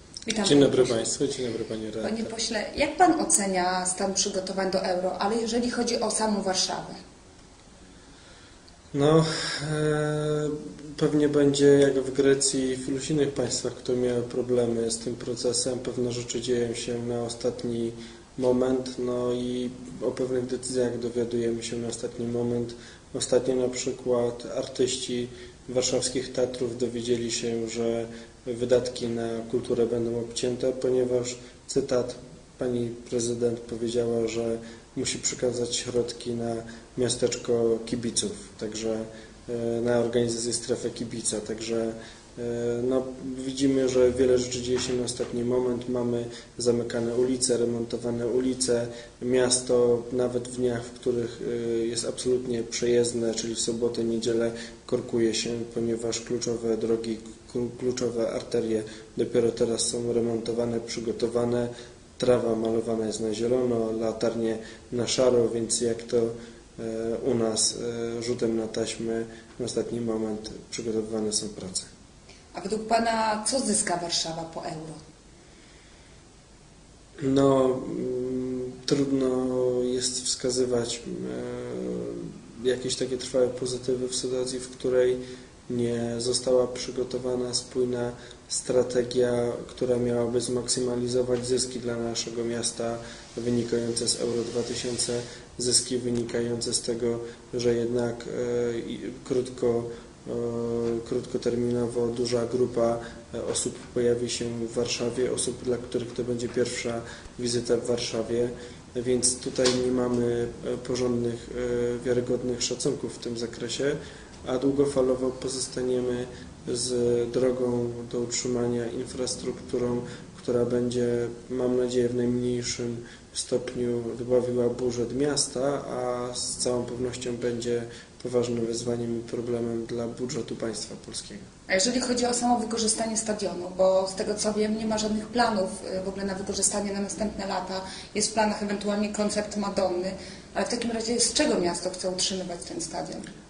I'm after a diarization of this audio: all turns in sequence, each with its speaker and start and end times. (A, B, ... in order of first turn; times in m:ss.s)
0:00.2-0:01.0 A
0:00.4-0:02.3 B
0:02.0-0:07.0 A
0:08.9-1:11.9 B
1:12.5-1:15.0 A
1:17.2-2:11.4 B
2:11.7-2:23.3 A